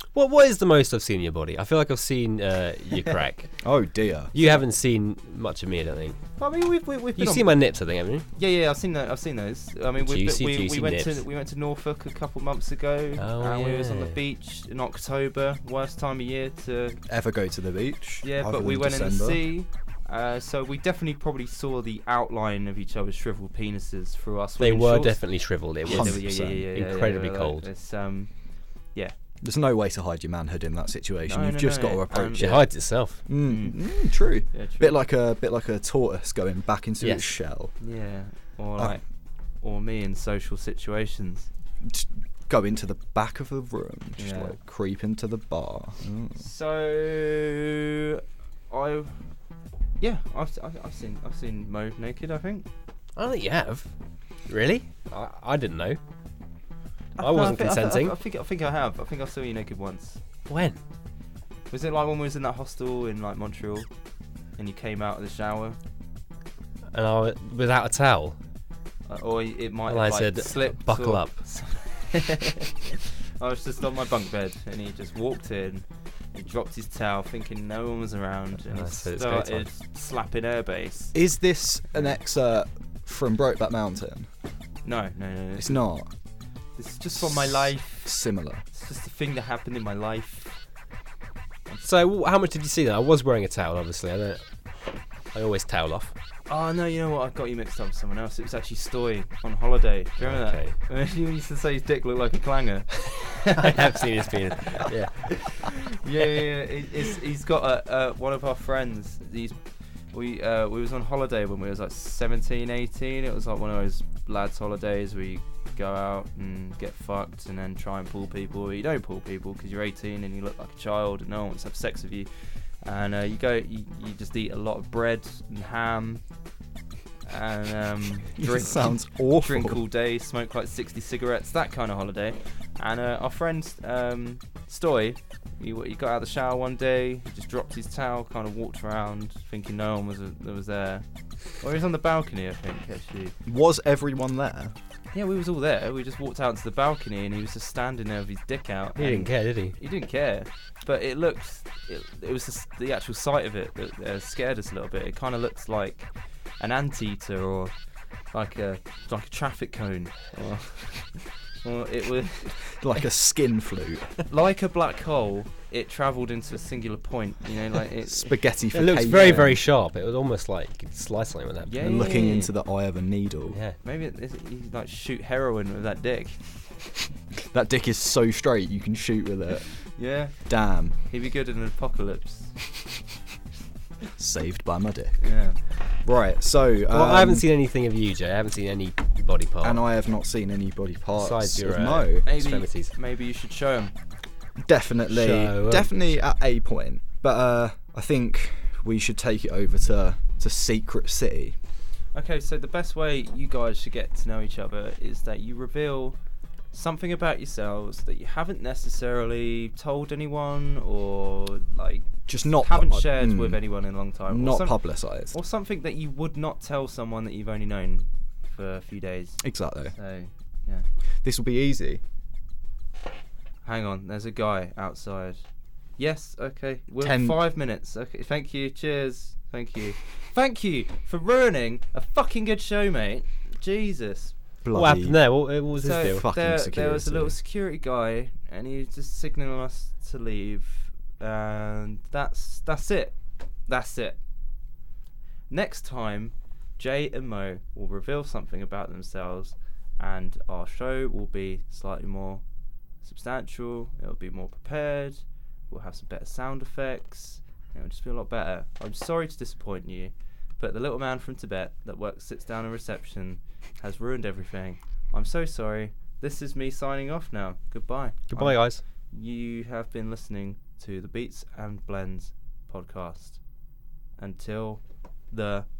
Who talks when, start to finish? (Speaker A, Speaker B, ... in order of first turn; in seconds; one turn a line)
Speaker A: 0.1-3.5
Speaker B: 3.6-4.3
Speaker A: 4.3-6.2
Speaker C: 4.3-4.6
Speaker C: 6.4-7.5
Speaker A: 7.2-8.2
Speaker C: 8.3-17.0
Speaker A: 10.0-11.2
Speaker A: 13.2-14.2
Speaker B: 17.1-19.4
Speaker C: 18.2-25.2
Speaker A: 24.6-27.7
Speaker C: 25.8-28.3
Speaker B: 25.9-26.7
Speaker B: 29.4-32.7
Speaker C: 31.3-32.6
Speaker A: 32.4-33.2
Speaker B: 33.2-37.7
Speaker C: 33.4-33.8
Speaker C: 34.5-35.0
Speaker A: 37.0-37.2
Speaker C: 37.8-39.0
Speaker C: 39.6-41.5
Speaker B: 41.8-46.4
Speaker C: 44.2-44.6
Speaker C: 46.4-49.2
Speaker C: 50.0-52.6
Speaker A: 53.2-53.9
Speaker A: 54.5-56.0
Speaker C: 57.2-60.2
Speaker A: 57.2-58.1
Speaker A: 60.5-60.8
Speaker C: 61.7-63.9
Speaker C: 64.6-65.8
Speaker A: 66.9-68.4
Speaker C: 69.1-81.1
Speaker A: 69.9-71.4
Speaker A: 78.7-79.7
Speaker B: 81.1-84.3
Speaker C: 84.8-85.8
Speaker B: 85.6-86.1
Speaker C: 86.8-88.1
Speaker B: 87.2-88.6
Speaker C: 88.7-90.6
Speaker A: 91.8-94.4
Speaker A: 95.3-96.1
Speaker C: 96.5-104.1
Speaker A: 100.2-100.8
Speaker A: 103.5-105.7
Speaker C: 105.5-109.6
Speaker C: 110.1-126.2
Speaker C: 127.3-141.0
Speaker B: 128.3-129.8
Speaker C: 141.6-143.3
Speaker B: 143.4-144.7
Speaker C: 145.1-157.7
Speaker A: 149.0-149.8
Speaker C: 158.3-163.0
Speaker B: 162.7-164.2
Speaker C: 164.3-169.5
Speaker B: 168.1-169.6
Speaker A: 168.7-171.9
Speaker C: 171.7-172.5
Speaker B: 171.8-173.6
Speaker A: 173.5-173.8
Speaker C: 173.8-176.4
Speaker B: 177.4-179.8
Speaker C: 179.7-180.4
Speaker B: 180.4-180.9
Speaker C: 181.1-182.5
Speaker B: 184.2-185.2
Speaker C: 185.2-185.6
Speaker B: 186.0-187.4
Speaker A: 186.9-189.8
Speaker B: 189.6-192.3
Speaker A: 191.2-192.9
Speaker C: 192.2-193.9
Speaker B: 194.6-201.6
Speaker A: 195.1-195.9
Speaker C: 202.1-206.2
Speaker C: 206.7-220.8
Speaker B: 212.3-213.6
Speaker B: 214.3-215.3
Speaker B: 219.4-219.9
Speaker B: 221.2-222.0
Speaker C: 223.6-225.4
Speaker C: 226.0-234.3
Speaker B: 227.0-227.4
Speaker B: 234.6-235.2
Speaker A: 234.7-236.3
Speaker C: 235.8-243.2
Speaker B: 236.0-237.3
Speaker C: 243.7-244.2
Speaker C: 245.5-252.4
Speaker C: 253.0-273.4
Speaker A: 268.3-268.8
Speaker C: 274.2-275.7